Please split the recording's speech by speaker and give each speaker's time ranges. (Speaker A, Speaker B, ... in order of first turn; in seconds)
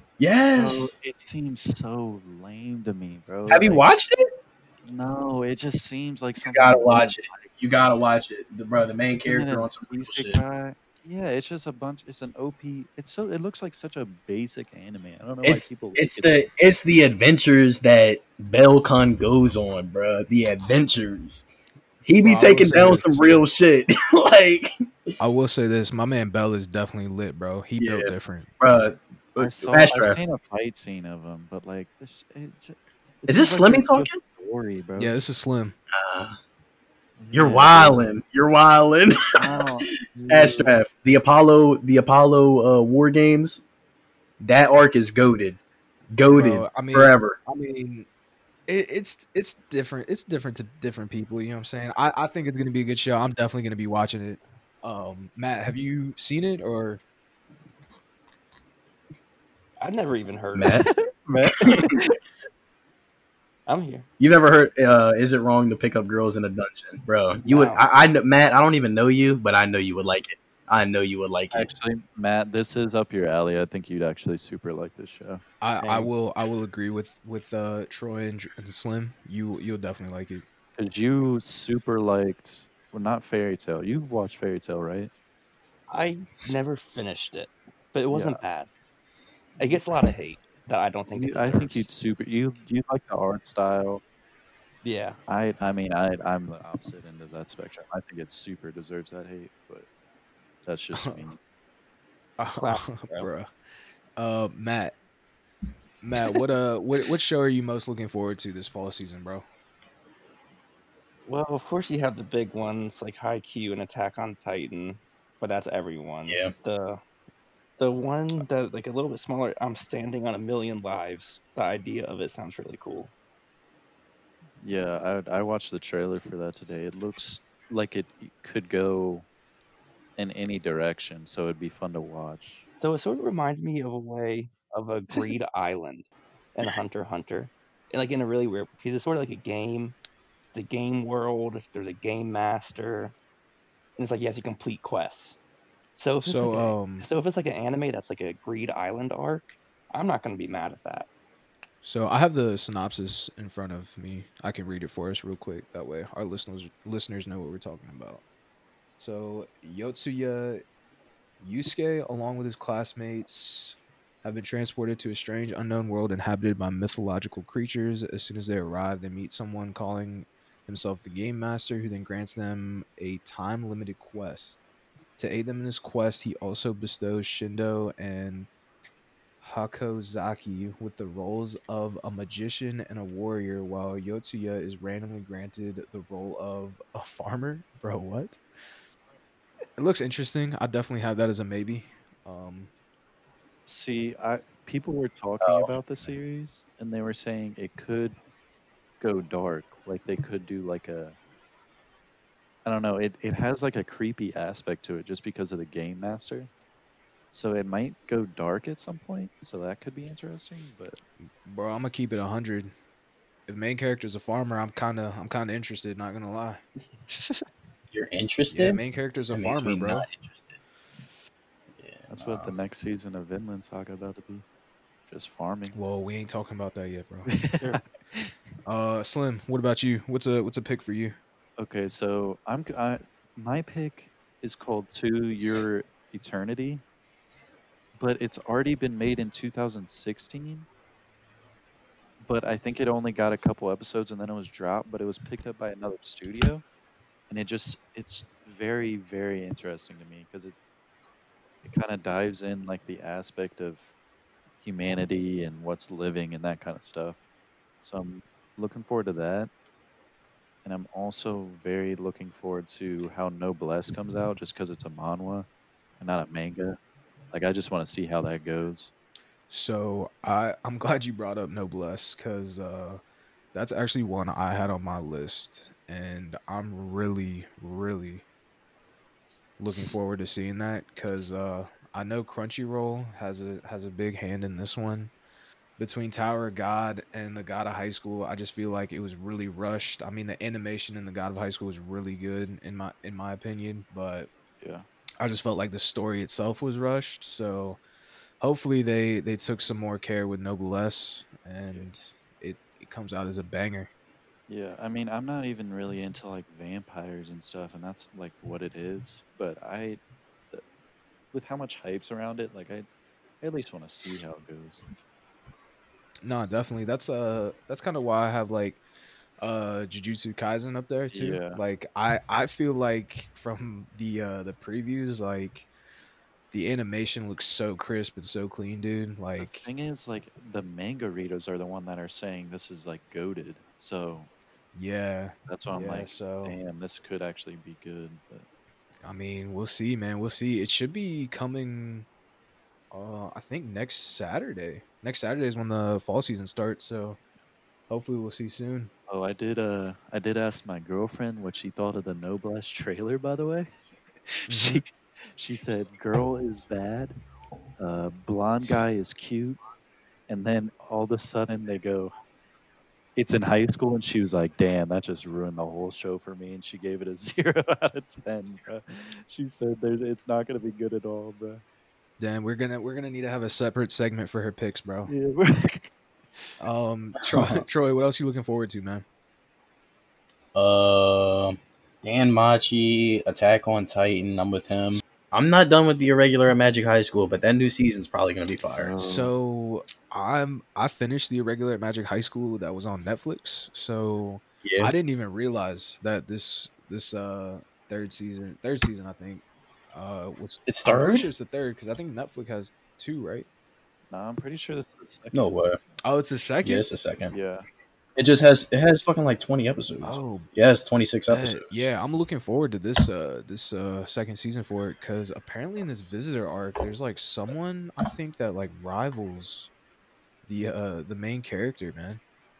Speaker A: 0.2-1.0, 3.5-4.3, 6.4-10.4, 15.4-21.5, 22.1-24.7, 27.8-30.2, 33.2-34.2, 35.9-36.4, 37.3-39.7, 40.3-43.6, 44.4-45.6, 46.1-47.4, 60.5-60.9, 61.6-61.8, 64.2-71.7, 116.2-116.5, 195.4-195.8, 217.9-220.6, 221.8-222.6, 377.2-377.6, 380.5-388.9, 394.6-394.9, 400.7-401.3, 405.3-405.8, 406.6-407.3, 408.1-411.8
Speaker B: 0.5-4.0, 4.8-7.5, 9.2-16.5, 29.4-35.1, 37.2-38.1, 39.4-40.8, 60.9-62.1, 71.5-75.4, 80.8-85.1, 88.1-88.4, 91.1-94.0, 95.3-99.9, 100.6-101.4, 124.6-129.3, 130.2-132.7, 193.7-198.2, 199.0-201.2, 202.6-206.5, 207.3-211.0, 217.1-217.4, 222.1-224.4, 225.1-225.8, 227.3-228.3, 231.6-236.8, 237.9-240.7, 242.2-246.6, 247.3-250.6, 251.6-253.9, 254.6-257.2, 257.8-259.5, 260.6-265.5, 266.0-266.8, 267.3-268.9, 279.3-280.0, 294.6-294.9, 304.5-310.0, 311.3-312.9, 313.4-314.8, 321.1-321.6, 329.4-334.3, 335.5-338.4, 349.1-353.7, 354.3-357.1, 357.8-359.6, 360.3-362.1, 363.1-371.6, 375.1-376.5, 388.7-389.3, 404.1-405.4, 407.3-407.6
Speaker C: 22.2-23.4, 25.2-28.5, 35.0-35.8, 46.3-48.1, 48.7-57.0, 75.6-80.4, 100.9-101.3, 102.4-103.5, 104.2-105.0, 106.0-109.4, 146.2-147.1, 151.8-158.2, 159.0-160.6, 161.4-174.6, 175.2-178.5, 179.4-188.4, 189.8-192.7, 211.4-212.7, 213.5-216.6, 218.5-220.1, 225.7-227.3, 228.7-231.2, 269.5-273.0, 273.5-278.2, 279.6-285.1, 285.8-294.3, 295.2-297.8, 298.4-303.9, 316.2-318.8, 319.4-325.7, 326.5-329.7, 334.7-336.6, 339.0-342.1, 342.9-347.2, 347.9-348.9, 354.5-354.8, 372.2-375.1, 376.6-379.0, 389.0-403.5, 406.0-406.9, 410.0-410.5, 411.3-419.7, 420.4-422.2
Speaker D: 59.8-60.8, 63.6-64.0, 67.4-67.8, 75.8-76.1, 85.9-88.7, 89.6-91.9, 94.8-95.2, 102.6-103.3, 111.3-117.0, 117.8-123.1, 132.8-140.0, 140.5-143.1, 144.0-145.4, 145.9-151.1